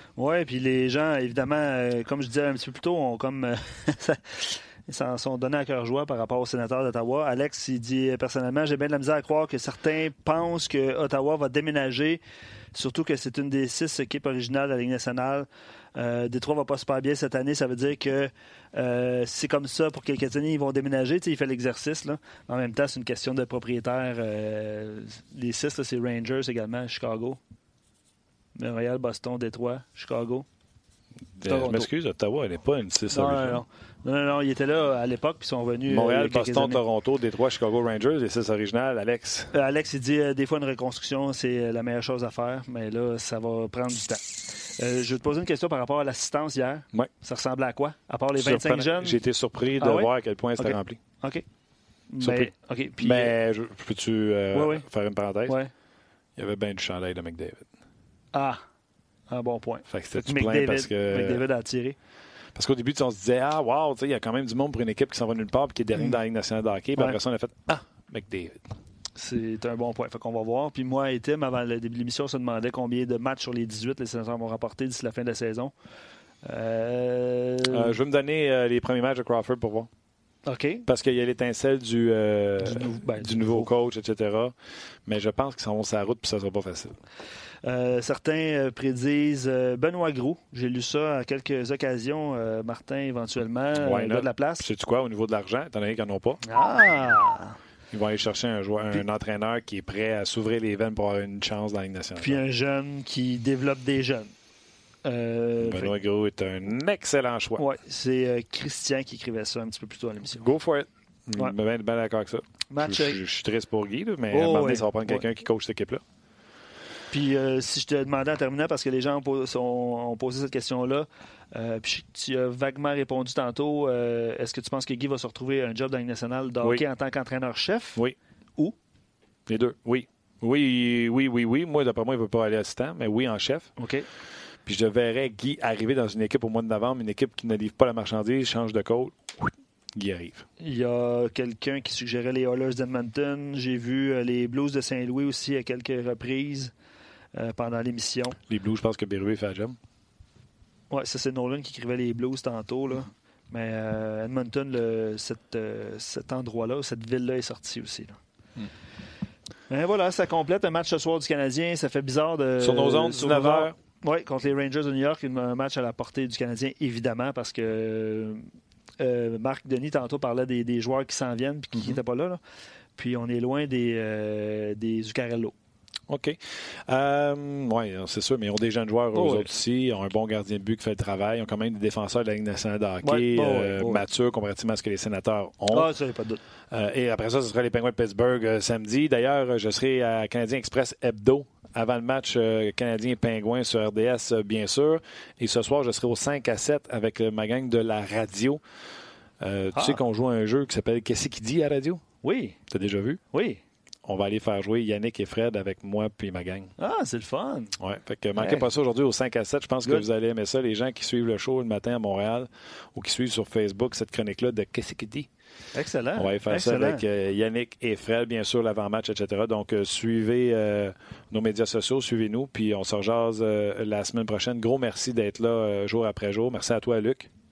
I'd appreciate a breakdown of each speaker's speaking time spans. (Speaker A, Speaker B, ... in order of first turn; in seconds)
Speaker A: 0.2-12.2, 12.7-27.4, 28.6-30.5, 31.5-31.9, 33.1-36.8, 39.5-49.2, 49.8-51.4, 52.1-53.3, 54.5-54.8, 55.5-55.7, 58.3-58.6, 59.3-62.0, 69.2-75.7, 76.4-77.9, 80.5-80.8, 82.6-83.7, 87.6-94.7, 96.5-97.6, 102.2-104.3, 105.0-105.9, 107.6-110.5, 112.7-113.2, 114.3-115.2, 117.1-128.0, 133.8-134.1, 140.6-146.7, 147.3-148.4, 150.9-158.2, 159.7-168.4, 169.0-172.4, 172.9-175.5, 179.1-179.5, 183.0-184.0, 185.7-186.4, 199.7-200.0, 202.2-202.6, 203.3-203.6, 206.8-207.8, 208.4-208.7, 215.7-217.0
Speaker B: 31.4-33.6, 35.9-39.5, 48.4-51.0, 52.2-55.6, 56.4-57.7, 59.9-61.4, 62.5-68.7, 77.7-79.9, 80.9-84.5, 85.0-87.0, 93.8-96.4, 97.9-102.4, 105.6-107.6, 110.4-116.0, 129.5-133.7, 134.7-140.4, 148.5-149.8, 162.6-163.7, 176.1-176.4, 176.9-185.9, 186.7-198.6, 199.4-202.0, 202.7-203.2, 204.0-206.7, 207.8-215.3, 216.2-227.3